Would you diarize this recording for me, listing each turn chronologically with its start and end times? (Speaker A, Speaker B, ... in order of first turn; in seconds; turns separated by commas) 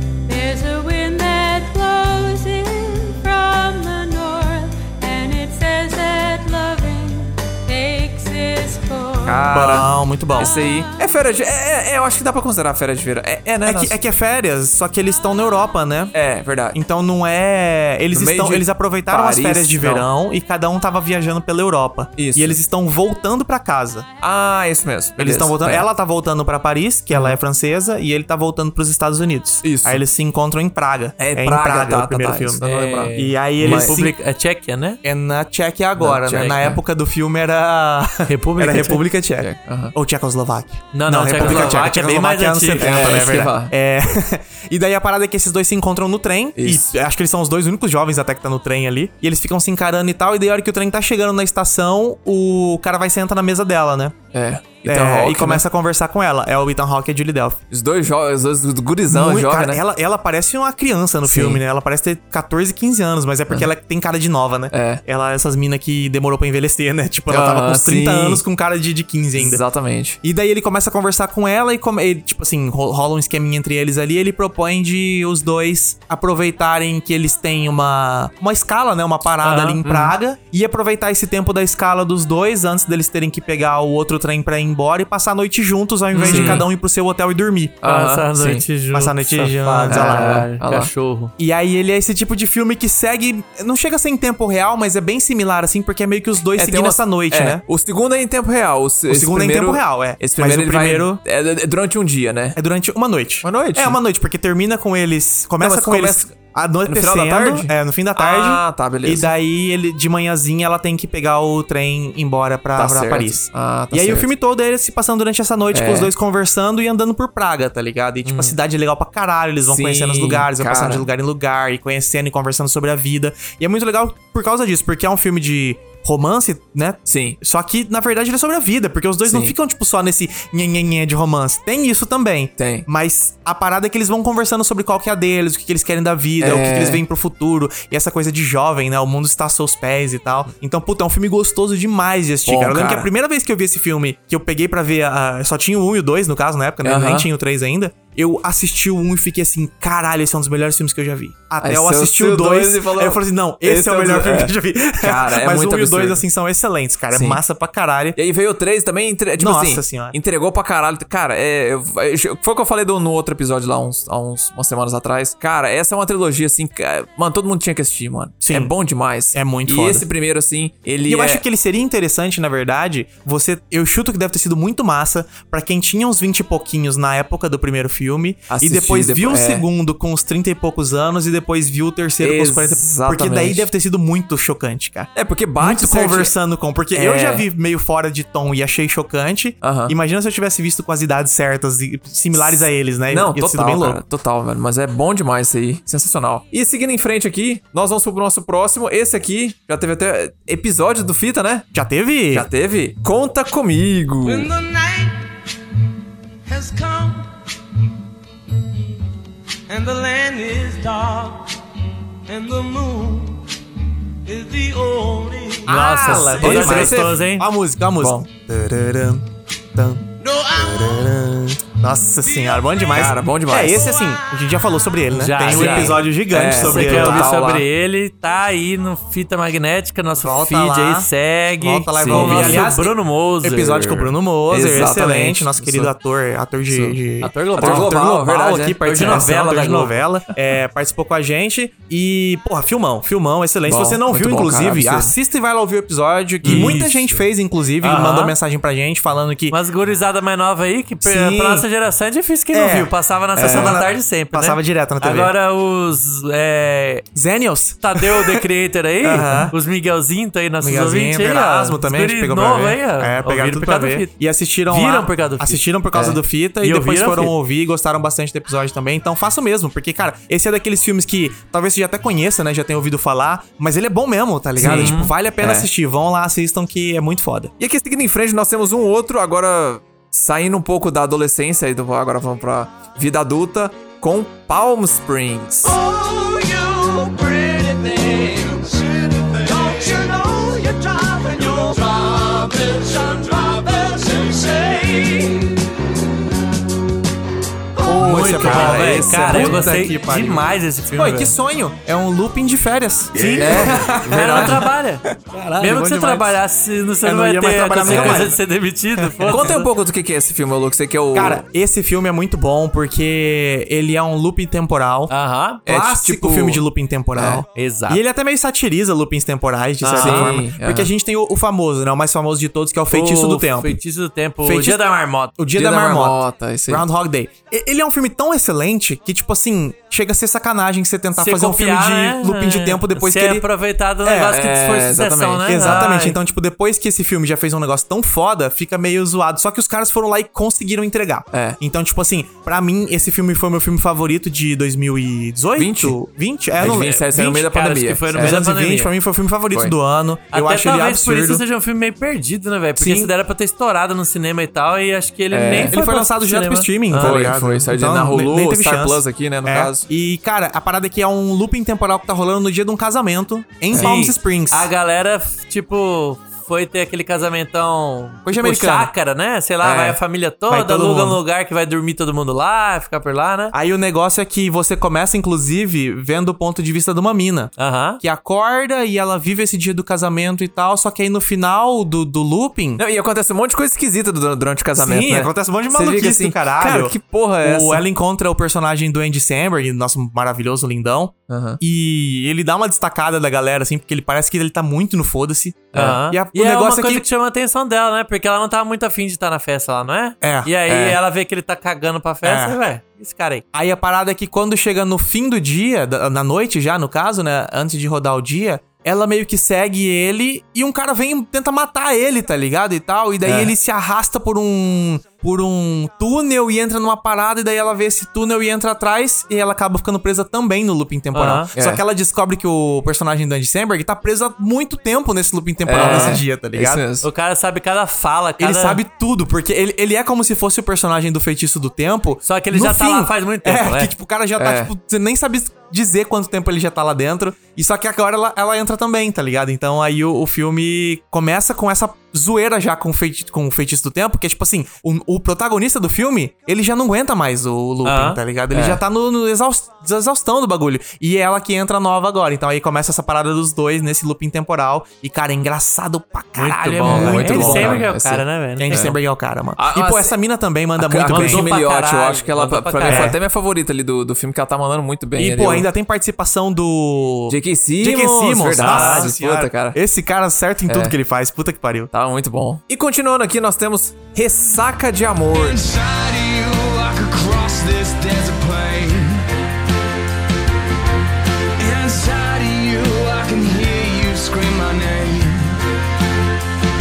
Speaker A: 0.3-9.5, Speaker B: 9.2-13.9, Speaker C: 9.5-10.5, Speaker C: 13.6-16.1, Speaker B: 16.1-16.8, Speaker C: 16.7-24.1, Speaker B: 18.1-20.1, Speaker B: 22.2-22.6, Speaker B: 24.2-25.9, Speaker C: 25.2-34.1, Speaker B: 27.1-27.4, Speaker B: 29.6-30.0, Speaker B: 31.2-34.0, Speaker D: 32.6-35.0, Speaker C: 35.0-54.1, Speaker B: 36.0-36.8, Speaker D: 38.3-39.0, Speaker B: 39.4-39.9, Speaker D: 40.9-43.1, Speaker B: 41.4-41.7, Speaker B: 42.8-43.7, Speaker B: 46.5-46.9, Speaker B: 54.3-55.6, Speaker C: 54.9-57.6, Speaker B: 57.7-59.8, Speaker C: 59.1-69.6, Speaker B: 61.2-61.6, Speaker B: 64.7-65.0, Speaker B: 67.3-68.4, Speaker B: 69.4-70.2, Speaker C: 70.2-87.8, Speaker D: 79.4-79.8, Speaker B: 79.8-80.1, Speaker D: 86.1-86.6, Speaker B: 86.2-86.7, Speaker B: 87.8-88.6, Speaker D: 87.8-91.3, Speaker C: 88.9-90.4, Speaker B: 89.9-90.9, Speaker C: 91.4-97.6, Speaker B: 96.5-102.6, Speaker C: 99.1-101.2, Speaker C: 102.5-158.2, Speaker B: 103.4-104.0, Speaker B: 105.6-109.3, Speaker B: 112.8-114.3, Speaker B: 115.7-116.1, Speaker B: 119.7-121.1, Speaker B: 127.1-127.4, Speaker B: 129.2-129.5, Speaker B: 132.6-132.9, Speaker B: 136.4-137.0, Speaker B: 142.4-143.1, Speaker B: 146.8-147.3, Speaker B: 151.6-156.2, Speaker B: 157.1-157.4, Speaker B: 158.2-171.4, Speaker C: 159.4-160.2, Speaker C: 168.4-168.7, Speaker C: 169.3-170.1, Speaker C: 171.1-194.0, Speaker B: 178.5-179.6, Speaker B: 182.2-183.7, Speaker B: 185.1-186.3, Speaker B: 186.9-187.5, Speaker B: 189.6-189.9, Speaker B: 192.4-201.7, Speaker C: 201.7-202.5, Speaker B: 202.3-204.5, Speaker E: 204.2-205.2, Speaker E: 206.4-207.2, Speaker E: 209.7-211.4, Speaker E: 212.3-213.4, Speaker E: 214.3-215.6, Speaker C: 215.7-227.4, Speaker D: 215.7-217.4, Speaker B: 216.4-217.2, Speaker E: 220.2-221.1, Speaker E: 222.2-222.8, Speaker B: 222.9-223.8, Speaker E: 223.9-224.2, Speaker D: 225.1-234.1, Speaker B: 225.5-227.7, Speaker C: 230.2-249.6, Speaker B: 232.0-232.7, Speaker B: 234.5-235.9, Speaker B: 236.7-237.0, Speaker D: 237.2-237.9, Speaker B: 237.6-239.4, Speaker D: 238.8-239.9, Speaker B: 243.7-245.1, Speaker B: 246.4-246.8, Speaker D: 246.4-247.2, Speaker D: 247.8-248.4, Speaker D: 249.5-257.1, Speaker C: 251.0-251.7, Speaker C: 252.5-255.3, Speaker B: 253.4-253.8, Speaker C: 257.1-258.4, Speaker D: 257.8-264.1, Speaker C: 259.0-259.5, Speaker C: 260.6-277.5, Speaker D: 264.7-265.6, Speaker D: 266.6-267.3, Speaker B: 274.6-275.7, Speaker D: 274.6-275.1, Speaker B: 277.6-285.8, Speaker E: 285.7-295.5, Speaker C: 297.8-306.4, Speaker D: 297.9-301.3, Speaker B: 298.1-299.6, Speaker D: 303.2-305.0, Speaker B: 303.4-304.6, Speaker D: 305.6-309.6, Speaker C: 307.0-308.4, Speaker B: 307.9-308.3, Speaker C: 309.0-309.6, Speaker B: 309.3-311.4, Speaker C: 311.1-315.1, Speaker D: 315.1-315.6, Speaker B: 315.6-316.6, Speaker C: 315.6-323.8, Speaker B: 317.1-317.4, Speaker D: 317.5-318.0, Speaker D: 319.8-320.3, Speaker B: 319.9-320.9, Speaker D: 322.9-325.3, Speaker C: 324.4-324.8, Speaker C: 325.4-333.5, Speaker B: 325.6-326.9, Speaker D: 331.1-336.2, Speaker C: 334.0-334.4, Speaker B: 334.3-335.8, Speaker C: 335.4-351.4, Speaker B: 341.3-341.6, Speaker B: 345.6-345.9, Speaker B: 346.6-348.4, Speaker D: 347.4-348.9, Speaker D: 350.3-357.3, Speaker C: 352.8-353.1, Speaker B: 355.3-355.7, Speaker C: 355.7-364.7, Speaker B: 357.0-359.9, Speaker D: 363.7-373.5, Speaker C: 368.2-368.9, Speaker B: 369.6-370.0, Speaker C: 370.5-371.2, Speaker C: 373.5-382.8, Speaker D: 377.6-378.0, Speaker B: 382.8-387.8, Speaker C: 384.8-397.1, Speaker B: 391.3-391.6, Speaker B: 395.7-396.0, Speaker D: 395.7-403.4, Speaker C: 400.2-400.5, Speaker B: 400.7-401.0, Speaker C: 402.2-402.6, Speaker C: 403.5-426.8, Speaker B: 413.2-413.5, Speaker D: 421.1-421.5, Speaker B: 421.6-421.8, Speaker B: 425.6-427.1, Speaker D: 425.8-426.2, Speaker D: 427.0-428.8, Speaker C: 428.4-457.9, Speaker D: 432.2-433.9, Speaker B: 434.4-434.7, Speaker D: 447.9-448.2, Speaker B: 448.5-448.8, Speaker D: 456.4-458.7, Speaker B: 456.8-459.0, Speaker C: 458.6-461.5, Speaker B: 459.6-460.2, Speaker B: 460.8-465.7, Speaker D: 461.1-463.1, Speaker C: 462.9-463.2, Speaker C: 465.2-471.9, Speaker B: 467.3-469.8, Speaker D: 468.6-469.1, Speaker B: 470.7-470.9, Speaker B: 471.9-475.6, Speaker E: 475.3-479.2, Speaker E: 481.6-485.6